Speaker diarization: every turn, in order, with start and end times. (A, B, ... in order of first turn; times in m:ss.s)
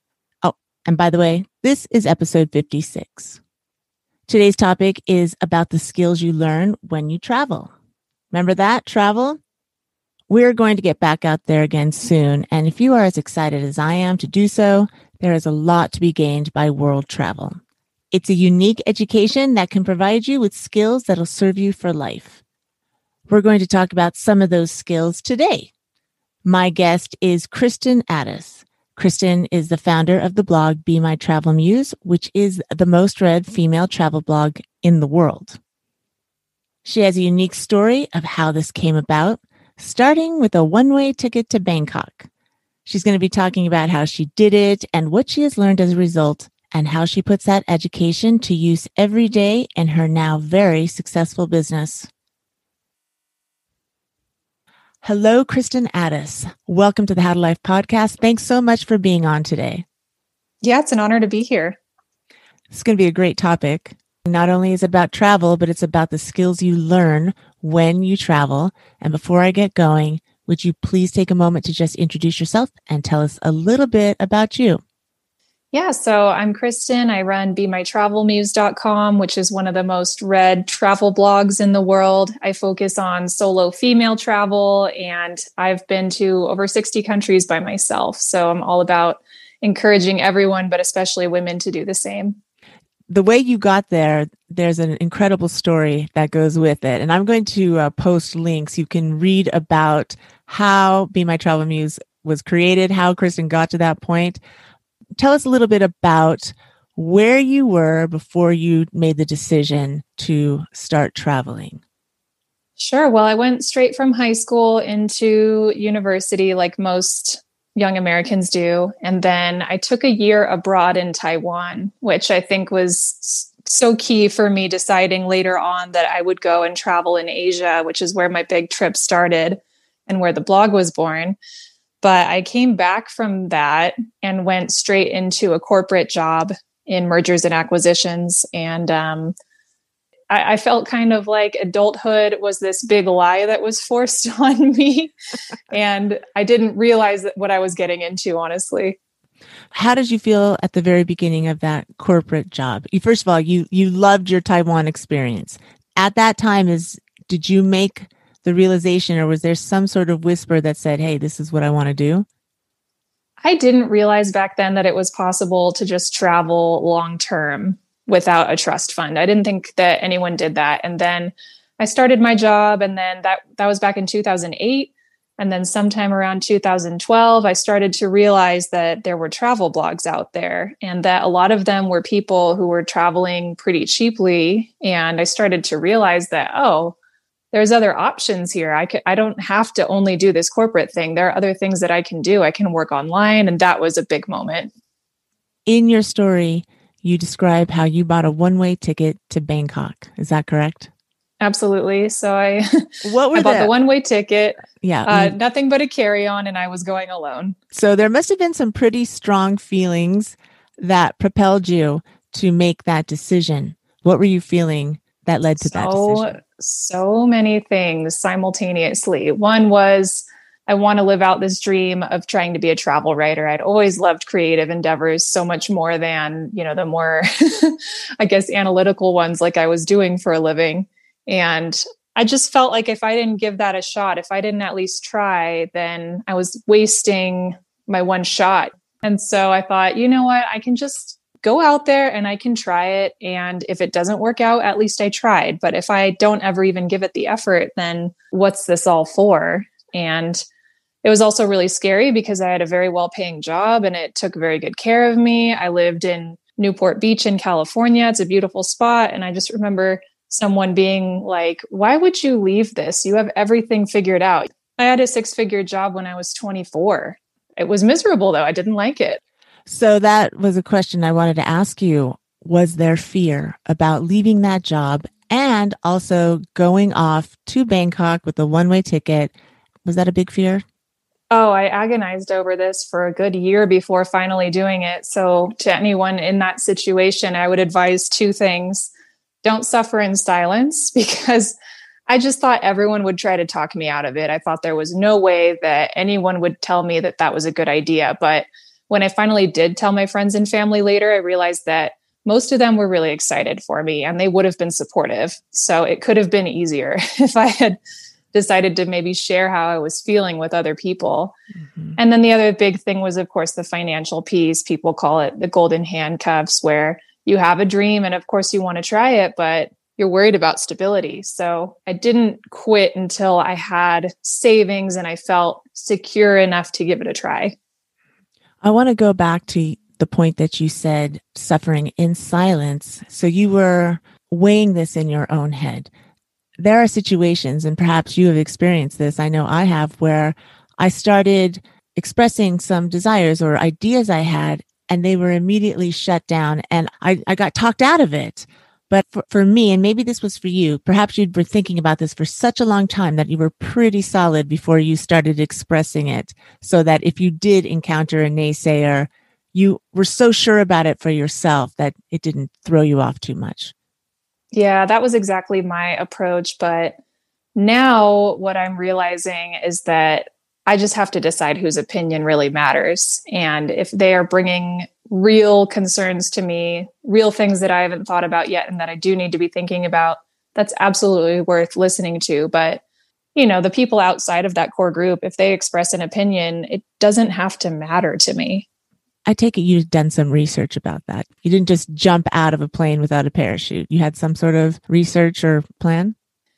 0:00.4-0:03.4 A
0:04.3-0:07.7 A
0:08.3-0:09.4 A
0:10.3-0:17.6 A
0:18.1-0:22.4 A
0:23.3-0:25.7 A
0:26.4-0:35.6 A
0:36.8-0:42.3 A
0:42.8-0:52.1 A
0:55.0-0:59.8 A
1:00.6-1:01.8 B
1:02.7-1:14.8 A
1:15.7-1:32.4 B
1:33.1-1:44.4 A
1:45.2-1:51.8 A
1:52.8-2:11.4 B
2:12.0-2:19.3 B
2:20.3-2:25.1 B
2:25.7-2:29.0 B
2:29.7-2:42.3 A
2:43.4-3:07.0 B
3:07.5-3:14.7 B
3:15.7-3:20.9 A
3:21.4-3:27.6 B
3:23.0-3:23.7 A
3:24.8-3:25.3 A
3:27.7-3:36.3 A
3:35.6-4:10.4 B
4:11.0-4:29.2 B
4:29.7-4:39.3 A
4:39.8-4:40.6 A
4:41.3-4:48.9 B
4:49.4-4:51.6 B
4:52.1-5:07.8 B
5:08.3-5:11.3 B
5:12.0-5:27.5 B
5:28.6-5:35.9 A
5:36.6-6:03.7 A
6:04.5-6:06.9 B
6:07.5-6:22.8 B
6:23.3-6:28.6 B
6:29.2-6:36.1 A